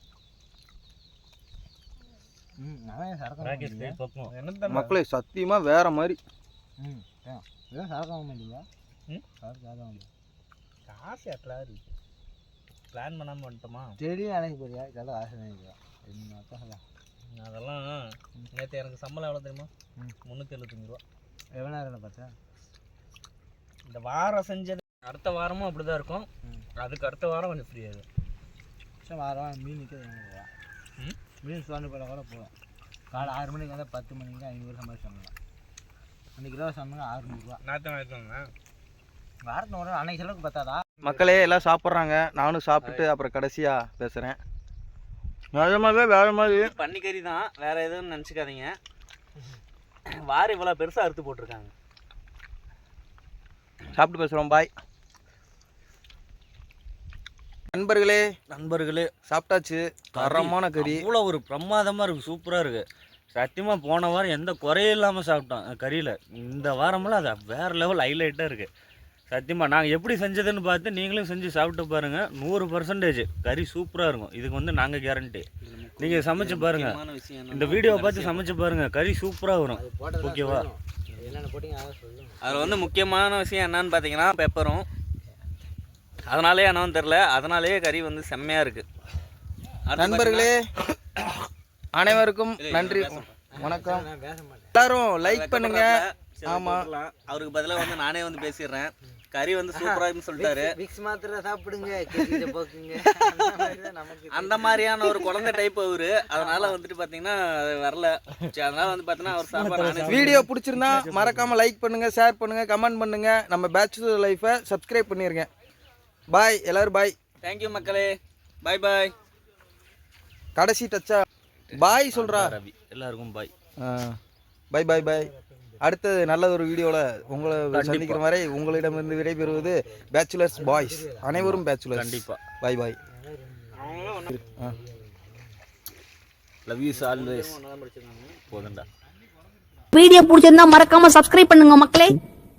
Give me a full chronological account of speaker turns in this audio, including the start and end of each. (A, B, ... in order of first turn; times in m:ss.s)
0:02.6-0:04.0 A
0:03.4-0:04.3 B
0:04.3-0:05.0 C
0:04.7-0:06.2 D
0:06.8-0:08.7 A
0:09.4-0:10.1 A
0:10.9-0:11.9 C
0:12.9-0:14.0 C
0:14.0-0:16.8 A
0:17.3-0:19.7 C
0:20.2-0:21.0 C
0:21.5-0:22.3 A
0:23.8-0:28.0 C
0:29.0-0:30.5 A
0:31.4-0:32.5 A
0:33.1-0:35.3 A
0:36.4-0:37.6 A
0:37.6-0:38.5 C
0:39.4-0:41.3 A
0:41.0-0:44.4 D
0:42.8-0:43.1 C
0:45.5-0:46.7 D
0:46.5-0:48.8 C
0:50.1-0:51.7 C
0:54.0-0:54.7 D
0:57.7-0:58.2 D
0:58.5-0:59.1 B
0:59.3-1:01.0 D
1:00.1-1:08.7 B
1:09.3-1:15.4 B
1:15.6-1:18.6 C
1:16.0-1:20.6 B
1:19.7-1:22.9 A
1:21.1-1:21.4 C
1:22.4-1:24.9 C
1:26.2-1:28.8 C
1:29.8-1:30.5 C
1:30.0-1:30.6 D
1:31.9-1:34.1 D
1:32.6-1:33.4 C
1:33.5-1:34.8 A
1:34.7-1:36.9 D
1:35.2-1:40.7 C
1:39.7-1:45.3 A
1:43.2-1:43.7 C
1:44.3-1:50.3 C
1:46.3-1:46.8 A
1:49.2-1:51.5 B
1:50.0-1:55.4 D
1:56.3-1:57.1 D
1:57.4-1:59.1 C
2:00.6-2:01.2 D
2:01.7-2:02.6 D
2:01.9-2:03.5 B
2:03.8-2:04.1 D
2:04.7-2:05.3 D
2:04.9-2:05.9 A
2:05.8-2:13.0 D
2:07.2-2:07.9 A
2:07.8-2:08.2 B
2:07.8-2:08.2 C
2:08.6-2:09.7 A
2:10.5-2:11.4 A
2:11.4-2:12.4 B
2:13.0-2:15.6 A
2:13.8-2:14.4 C
2:16.6-2:17.6 B
2:16.9-2:18.6 C
2:18.5-2:18.9 B
2:19.9-2:22.2 E